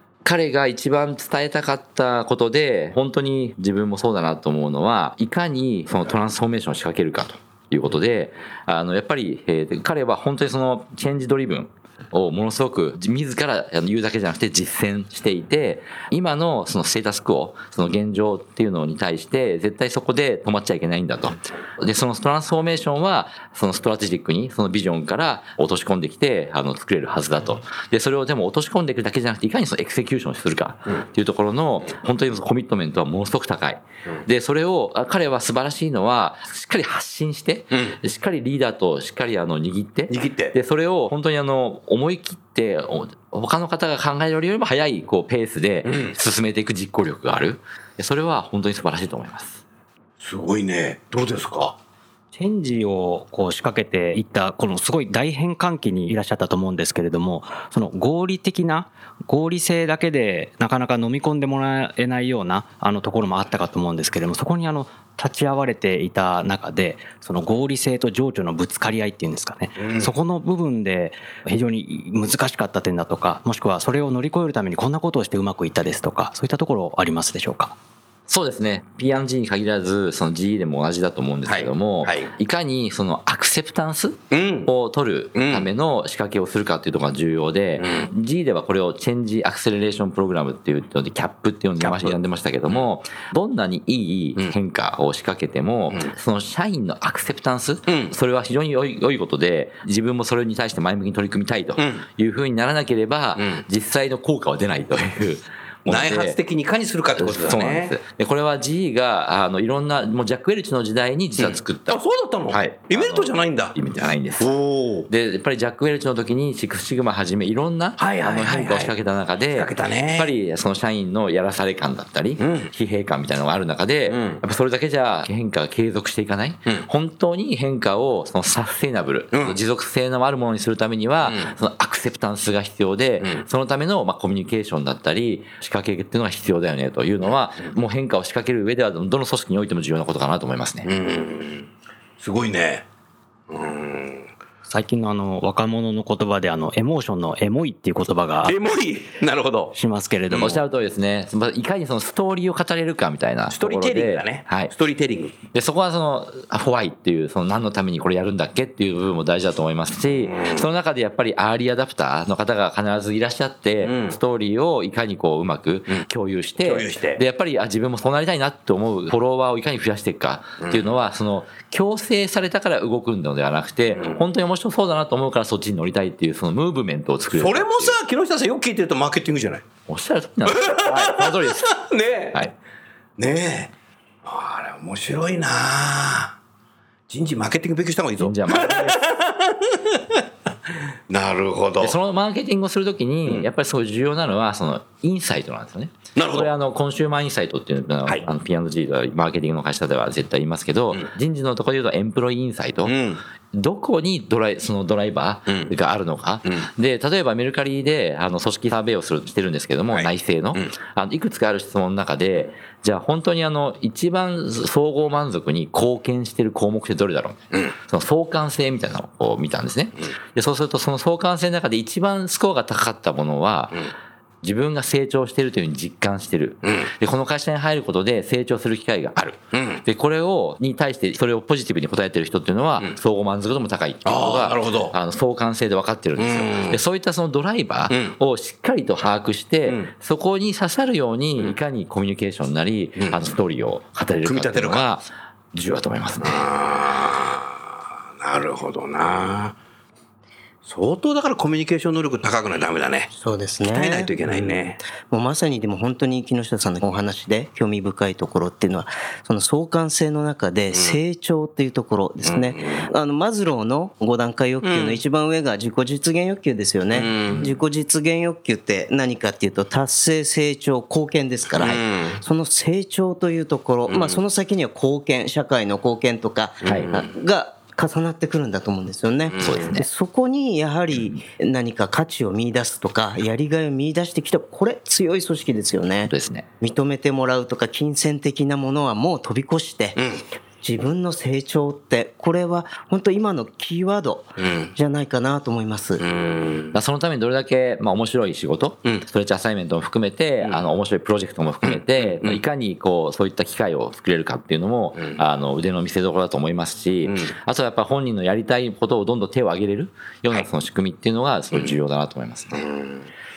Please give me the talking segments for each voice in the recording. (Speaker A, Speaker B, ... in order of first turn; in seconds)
Speaker A: 0.2-49.6, 78.3-106.4, 107.2-114.5, 115.1-140.9, 150.4-154.7, 155.5-178.0, 179.9-181.8, 188.2-189.0, 191.8-203.0, 203.5-223.9, 224.4-246.5, 276.7-276.9, 279.4-279.9, 286.1-286.5, 296.7-312.6
Speaker B: 40.1-40.5, 45.9-46.1, 50.2-51.8, 69.8-70.1, 81.5-82.3, 84.3-84.7, 85.3-85.7, 87.8-88.1, 91.8-92.2, 97.9-98.2, 101.8-102.1, 105.9-108.0, 111.4-113.8, 114.4-115.1, 118.0-119.0, 119.5-120.3, 122.4-122.7, 124.1-124.4, 129.3-129.6, 131.2-131.5, 140.9-141.7, 142.2-142.8, 143.5-144.3, 148.4-149.8, 150.3-150.6, 153.5-155.4, 160.3-160.6, 163.8-164.2, 166.6-167.2, 170.6-170.9, 174.0-174.2, 177.3-179.6, 180.5-182.4, 183.2-183.7, 184.2-186.3, 187.1-190.2, 191.1-192.0, 196.2-196.5, 202.9-203.2, 209.9-210.7, 226.6-226.9, 229.5-229.8, 234.1-234.9, 236.2-236.8, 237.9-238.2, 244.2-244.9, 246.2-247.6, 248.2-249.6, 250.7-253.1, 253.7-254.8, 260.7-261.0, 262.2-262.9, 264.6-265.0, 266.9-267.5, 271.6-272.2, 273.9-274.2, 276.6-277.1, 279.3-279.6, 294.4-294.7, 296.0-296.7, 301.6-302.4, 307.1-307.3, 312.5-313.1
Speaker C: 52.3-77.8, 144.6-148.6, 149.7-150.5
Speaker D: 253.1-290.0, 290.6-296.0